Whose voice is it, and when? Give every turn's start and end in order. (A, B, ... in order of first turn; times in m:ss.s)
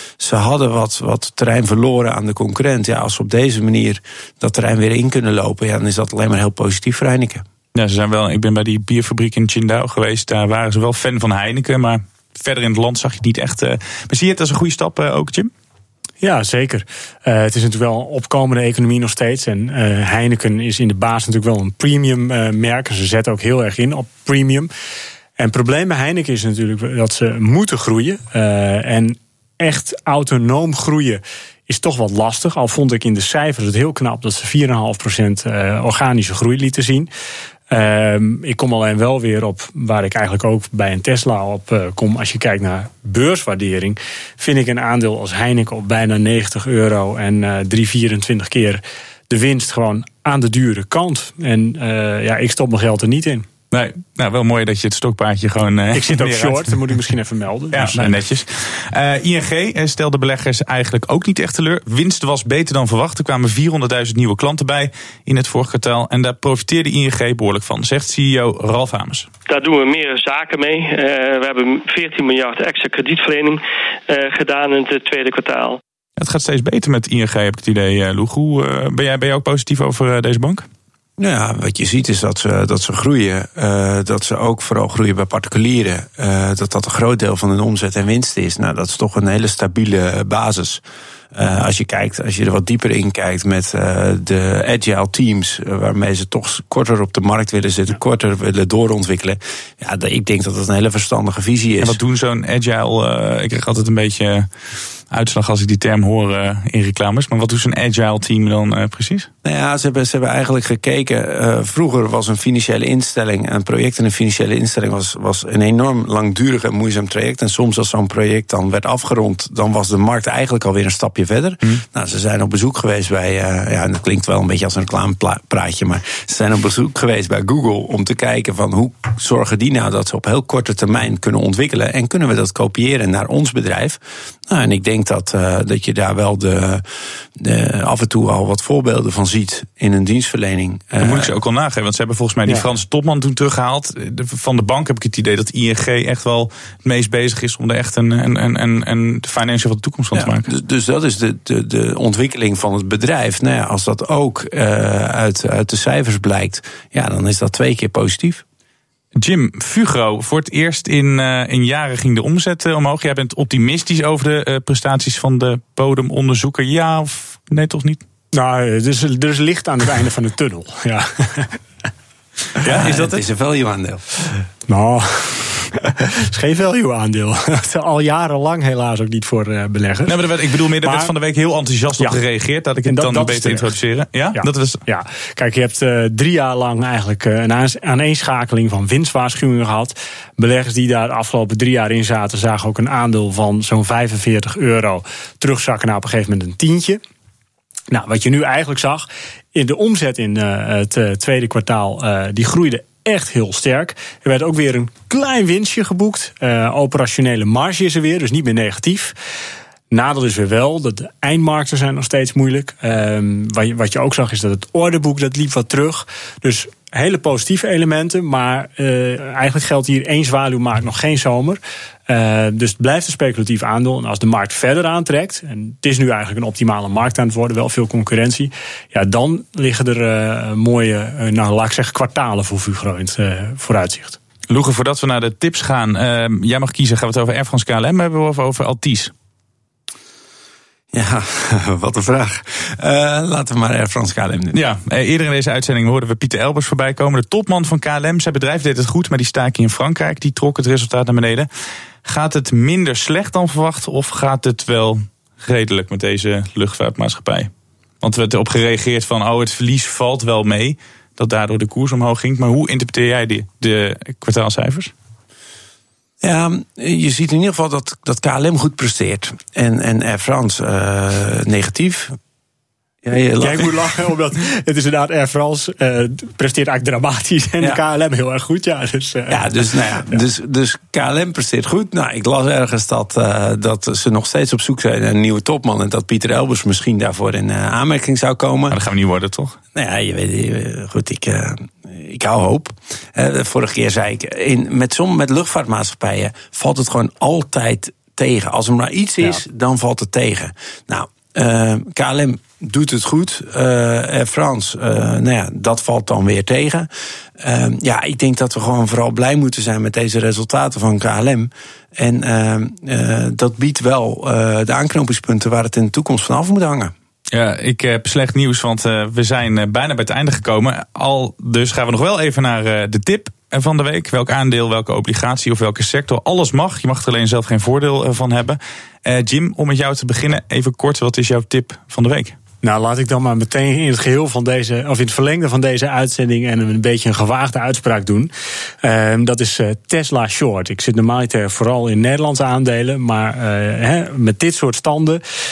0:00.2-0:07.4 A
0:07.8-0:15.5 B
0:16.2-0:24.7 C
0:25.4-0:37.1 C
0:37.7-0:53.5 C
0:53.7-0:56.8 B
0:55.9-0:58.2 C
0:57.7-1:09.3 B
1:09.5-1:15.8 D
1:16.2-1:20.7 B
1:21.2-1:42.0 A
1:41.8-1:44.5 B
1:45.1-1:49.3 B
1:49.4-2:16.8 A
2:17.4-2:21.4 A
2:21.0-2:30.5 B
2:30.2-2:38.4 A
2:39.2-2:48.0 B
2:48.3-2:51.6 C
2:52.6-2:53.2 B
2:52.6-2:54.1 A
2:54.7-3:00.2 C
3:00.1-3:04.8 B
3:00.8-3:01.1 C
3:02.9-3:03.7 C
3:04.4-3:17.0 C
3:17.9-3:29.1 C
3:29.9-3:54.2 C
3:54.5-3:59.1 B
4:00.9-4:04.6 A
4:04.5-4:11.5 B
4:12.0-4:17.5 B
4:18.0-4:24.9 B
4:26.2-4:32.2 A
4:33.0-4:33.8 A
4:33.4-4:40.2 C
4:39.3-4:48.8 A
4:48.7-4:49.6 B
4:49.8-5:16.9 A
5:17.3-5:32.4 B
5:32.6-5:38.3 C
5:38.8-5:45.2 C